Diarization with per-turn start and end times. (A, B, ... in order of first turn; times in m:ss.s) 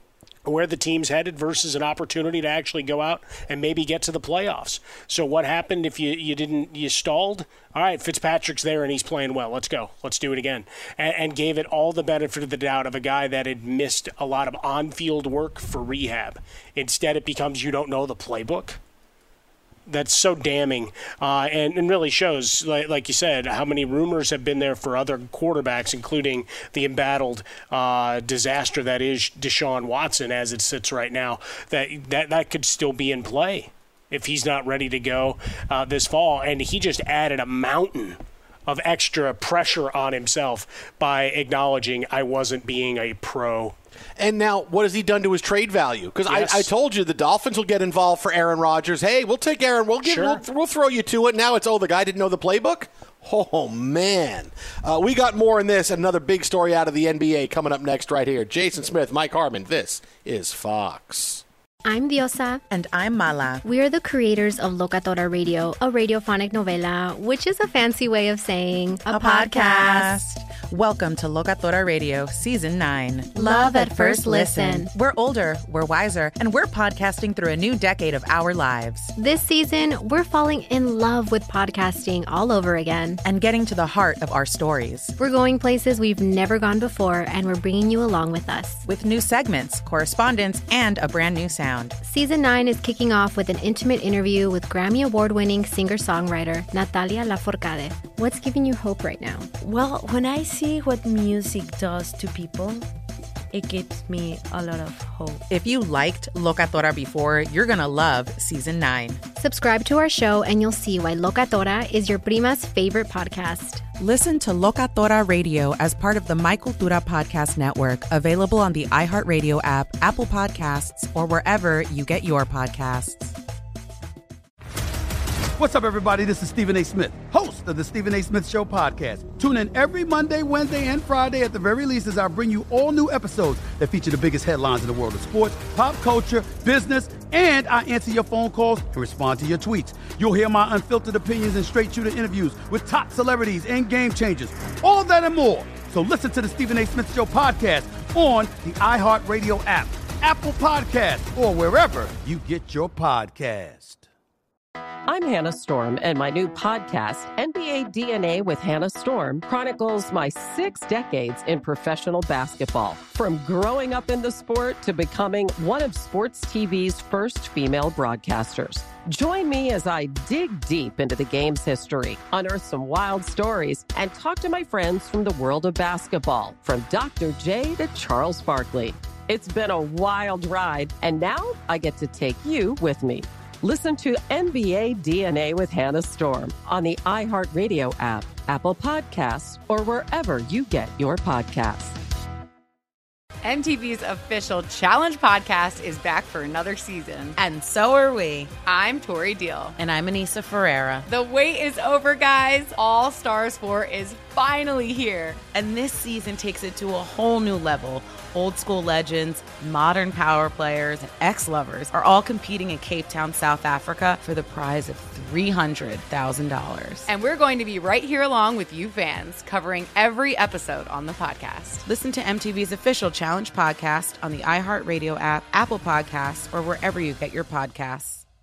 0:00.4-0:18.8 A
0:19.9-0:43.7 A
0:44.2-1:01.4 B
0:46.3-0:46.7 A
0:50.0-0:50.4 A
1:01.8-1:02.6 C
1:02.7-1:03.6 D
1:03.6-1:10.2 C
1:09.1-1:19.1 D
1:13.3-1:14.9 C
1:19.1-1:23.2 C
1:23.2-1:25.1 D
1:25.2-1:28.8 C
1:28.9-1:32.0 D
1:32.0-1:39.5 C
1:39.6-1:42.9 E
1:43.5-1:45.4 E
1:45.5-1:49.2 D
1:49.4-1:53.8 C
1:54.0-2:03.4 D
2:05.6-2:34.0 F
2:35.1-3:12.0 G
3:13.4-3:17.4 H
3:17.4-3:18.5 I
3:18.6-3:19.8 H
3:19.8-3:21.0 I
3:21.0-3:25.4 H
3:25.5-3:37.1 I
3:37.1-3:41.8 H
3:41.8-3:48.2 I